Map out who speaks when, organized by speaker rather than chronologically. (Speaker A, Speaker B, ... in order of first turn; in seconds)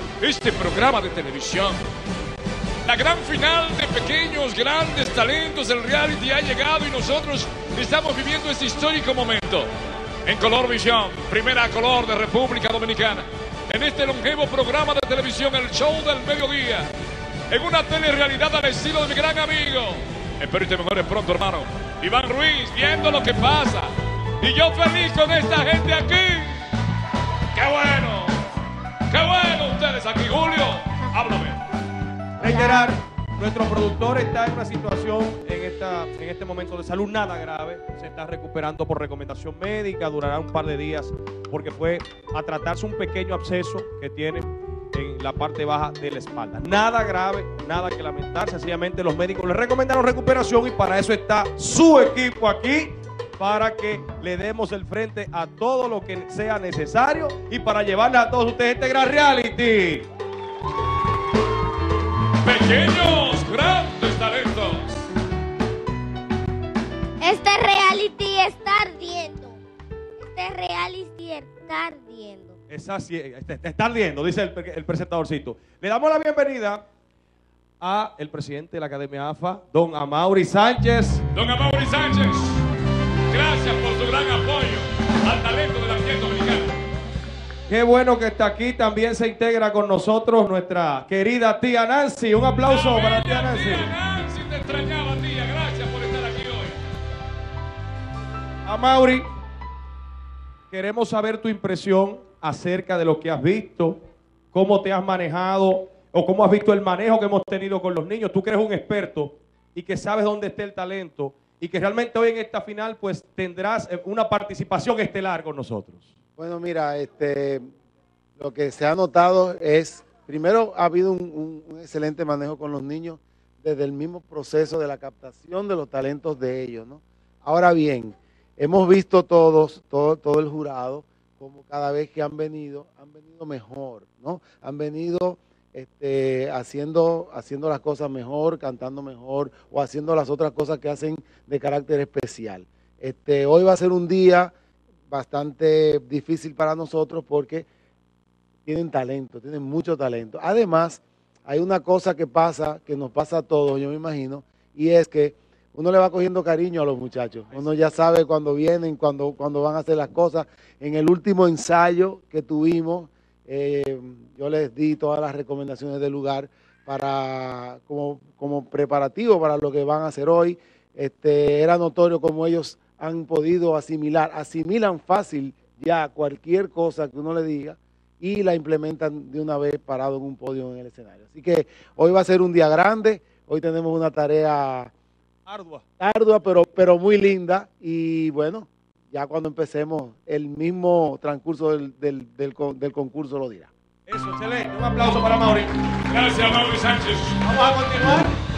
Speaker A: 0.2-1.8, 2.9-9.7, 10.3-16.9, 17.5-26.6, 27.5-28.4, 29.1-31.6, 62.4-65.1, 81.3-82.6, 83.3-86.8, 92.6-96.8, 196.1-197.4
Speaker B: 32.4-60.0, 72.7-76.8, 77.8-81.3, 87.7-93.9, 98.7-99.3, 100.7-104.0, 104.5-116.1, 185.5-185.8, 194.1-195.7, 197.4-198.3
Speaker C: 32.4-32.9, 67.2-69.6, 70.2-72.6
Speaker D: 116.4-117.7, 118.4-144.5, 145.1-147.7, 148.7-184.9, 186.0-193.7